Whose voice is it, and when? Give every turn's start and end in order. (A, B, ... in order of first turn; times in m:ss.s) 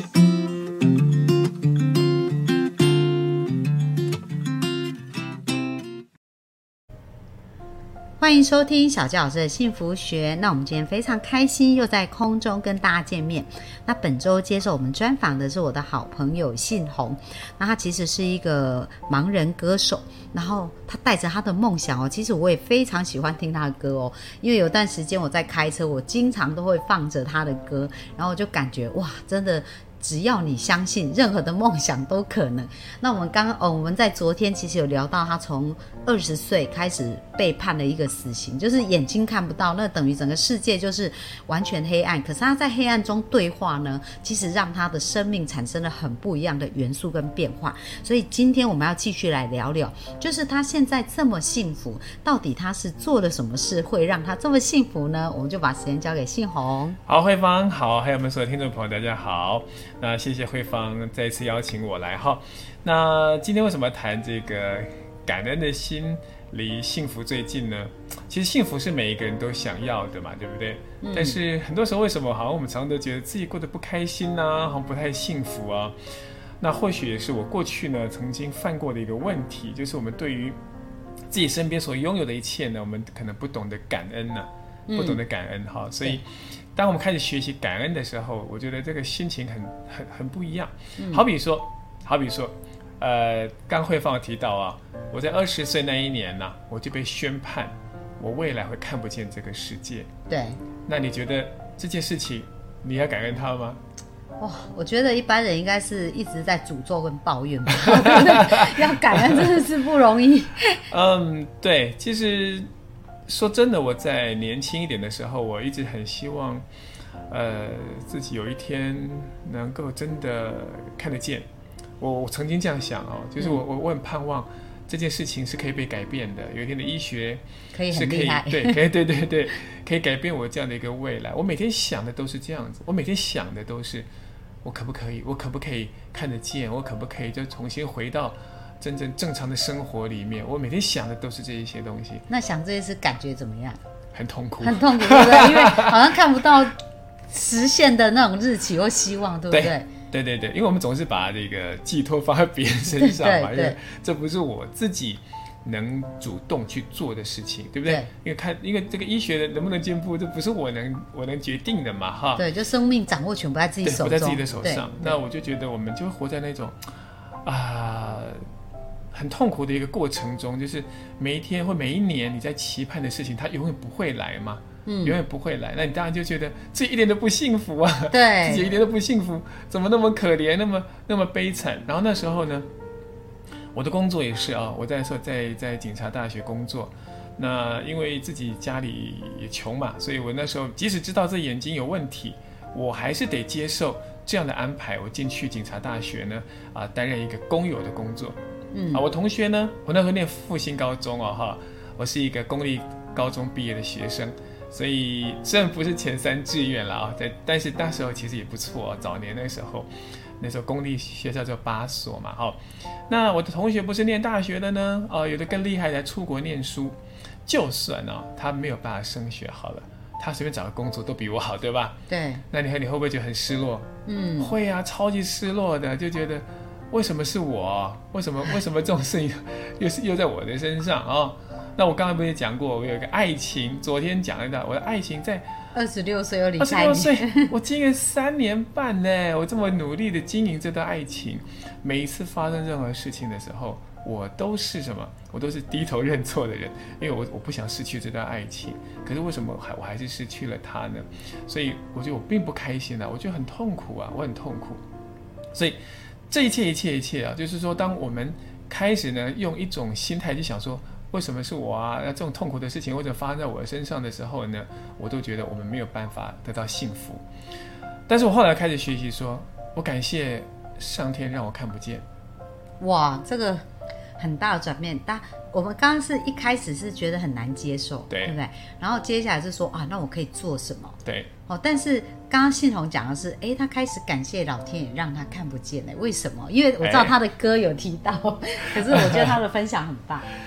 0:08.2-0:57.0 A
0:57.0-1:16.0 B
1:11.0-1:11.4 A
1:16.6-1:20.6 B
1:21.3-1:40.1 B
1:24.9-1:25.2 A
1:31.0-1:31.2 A
1:40.3-1:40.6 A
1:40.8-1:43.8 B
1:44.4-1:50.8 A
1:47.8-1:49.4 B
1:50.9-1:52.7 B
1:53.3-1:56.6 B
1:57.3-2:01.4 B
2:02.0-2:14.1 B
2:07.7-2:08.8 A
2:14.6-2:22.2 B
2:22.3-2:23.8 A
2:24.1-2:25.9 B
2:24.6-2:29.9 A
2:29.5-2:42.4 B
2:33.0-2:33.8 A
2:42.4-2:45.1 A
2:43.8-2:46.8 B
2:47.4-2:48.4 B
2:49.1-3:02.7 B
2:54.8-2:55.2 A
2:58.1-2:58.7 A
3:03.7-3:18.4 B
3:18.7-3:19.0 A
3:18.9-3:29.9 B
3:30.4-3:41.9 B
3:42.1-3:42.4 A
3:42.5-3:43.9 B
3:44.0-3:44.5 A
3:44.4-3:55.4 B
3:55.7-3:57.5 A
3:56.6-4:14.8 B
4:15.5-4:27.2 B
4:28.1-4:32.0 B
4:32.8-4:33.6 A
4:34.2-4:50.3 A
4:46.8-4:47.1 B
4:48.9-4:49.3 B